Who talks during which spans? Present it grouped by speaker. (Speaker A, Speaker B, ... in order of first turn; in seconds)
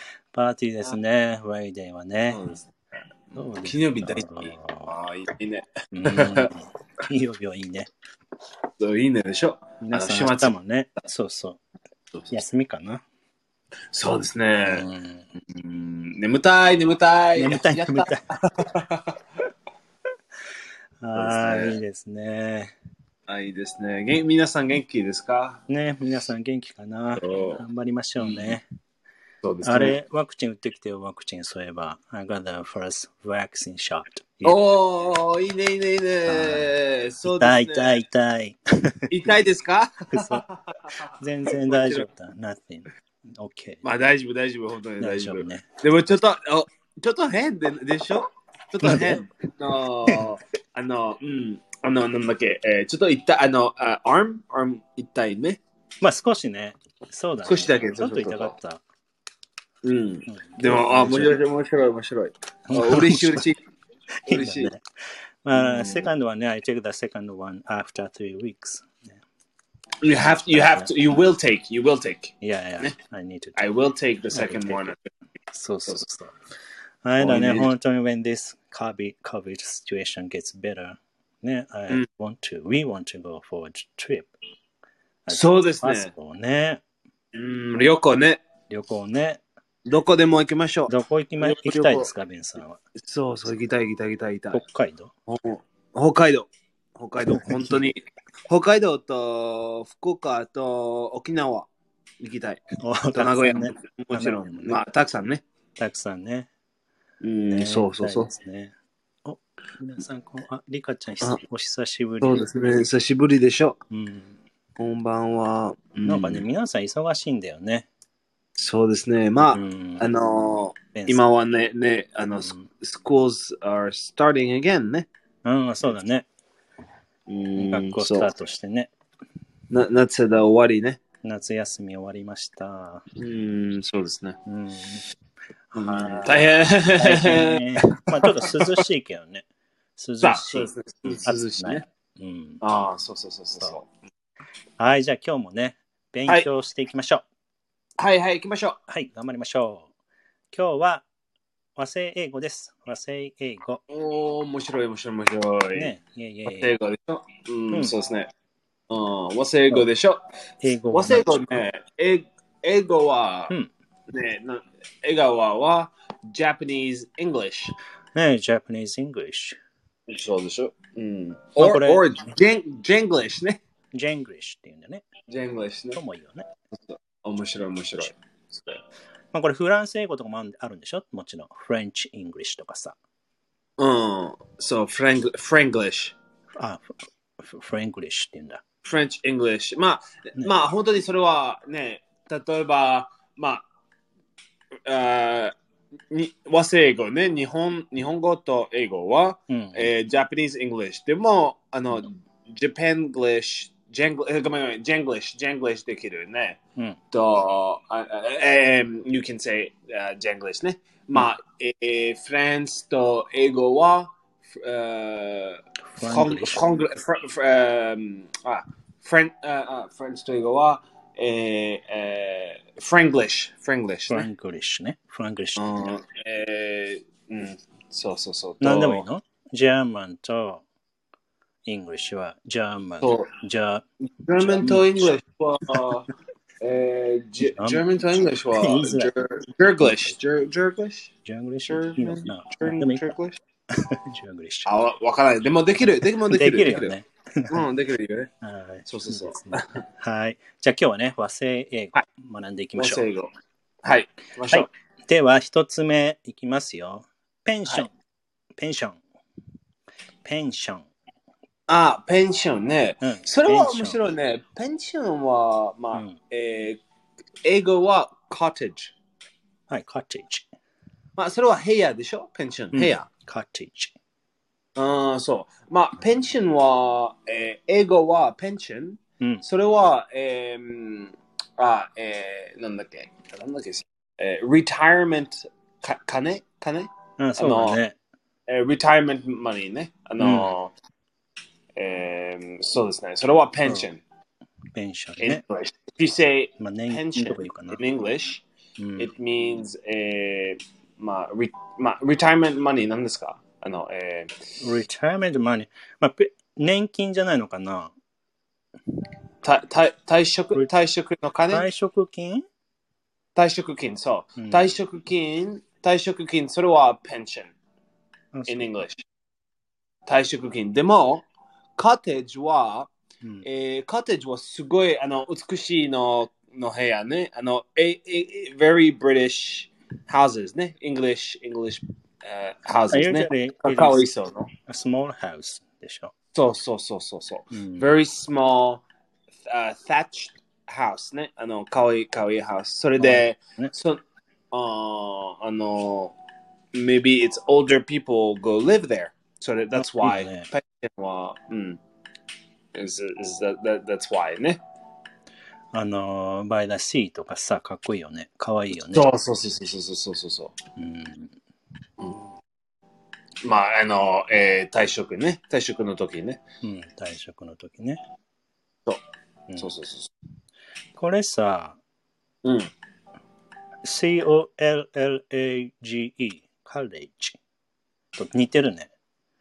Speaker A: 0.3-2.4, 3.3-5.0, 5.9-7.9, 9.8-11.6, 12.3-13.0, 14.6-15.2, 17.4-18.2, 21.0-22.7, 25.7-28.6, 29.6-34.6, 36.2-36.7, 37.2-39.1, 40.1-40.4, 41.2-43.8, 45.0-46.1, 48.8-49.2, 56.0-58.8, 60.3-61.4, 62.7-63.5, 64.2-64.8, 65.4-69.2, 70.5-70.9, 72.4-73.6, 74.3-74.9, 75.5-76.3, 77.0-84.3, 85.2-86.8, 88.7-89.4, 90.9-92.8, 94.5-95.1, 97.2-97.8, 102.8-104.7, 105.8-106.5, 107.5-108.7, 109.2-112.4, 113.9-114.3, 116.0-117.9, 119.5-120.0, 120.9-121.2, 125.4-126.2, 127.5-128.9, 131.2-133.0, 134.4-135.0, 135.7-139.4, 140.0-142.6, 144.8-147.2, 148.9-149.9, 150.5-151.0, 151.8-153.8, 155.8-156.7, 157.7-157.9, 160.6-161.7, 168.1-169.6, 171.6-172.4, 173.9-175.0, 175.9-176.5, 179.3-182.9, 186.6-188.6, 199.5-199.9, 215.9-216.6, 224.1-225.8, 228.6-230.6, 231.7-233.8, 234.4-235.2, 237.4-238.0, 238.5-239.1, 239.8-240.2, 241.2-243.0, 243.7-244.8, 245.9-247.7, 248.4-253.0, 254.5-257.9, 258.5-259.0, 260.2-260.9, 263.0-264.0, 269.7-270.4, 272.7-273.9, 287.2-287.9, 290.2-290.5, 294.7-295.4, 296.6-297.8, 298.8-299.1, 304.6-307.9, 311.5-312.4, 314.4-314.7, 318.3-318.8, 332.9-334.0, 334.7-336.1, 337.5-337.9, 343.0-343.7, 349.7-350.5, 355.7-359.1, 360.8-361.3, 366.6-368.0, 370.9-371.8, 373.8-377.4, 378.1-378.9
Speaker B: 2.3-2.7, 3.6-6.5, 8.8-10.6, 13.9-14.8, 15.5-19.2, 21.1-21.8, 23.3-25.6, 27.1-27.6, 28.2-28.6, 29.4-29.9, 34.4-38.0, 39.1-42.1, 43.8-55.6, 57.4-58.5, 59.8-63.6, 64.3-64.7, 65.5-66.1, 70.0-72.9, 73.5-75.0, 77.2-77.7, 85.3-86.1, 87.3-88.4, 89.8-92.1, 93.0-94.6, 95.3-101.7, 102.2-102.6, 103.1-105.4, 107.2-108.3, 112.2-113.8, 114.8-116.4, 118.6-125.1, 127.3-128.3, 129.7-131.0, 133.2-134.4, 135.7-138.8, 140.2-141.8, 142.6-143.9, 148.0-148.8, 153.9-155.9, 156.4-158.3, 158.9-160.2, 160.9-163.5, 164.1-167.7, 170.1-173.6, 175.3-176.0, 176.8-178.8, 183.8-186.1, 188.8-193.6, 194.9-195.5, 196.1-206.6, 207.1-224.3, 225.6-229.1, 233.0-233.3, 234.2-236.1, 236.6-241.1, 241.7-243.4, 244.6-247.0, 247.5-248.3, 248.8-249.8, 252.8-253.3, 253.8-254.7, 261.7-266.8, 267.4-268.9, 271.2-273.1, 274.8-287.8, 288.5-290.7, 291.8-294.0, 295.2-298.4, 299.0-304.4, 309.4-311.6, 313.4-317.5, 318.5-319.0, 320.1-321.2, 321.8-322.9, 323.4-334.5, 336.3-338.8, 339.5-344.0, 344.5-346.1, 346.7-351.8, 352.7-354.6, 358.9-360.5, 362.0-362.2, 363.4-366.4, 369.6-370.1, 372.4-372.7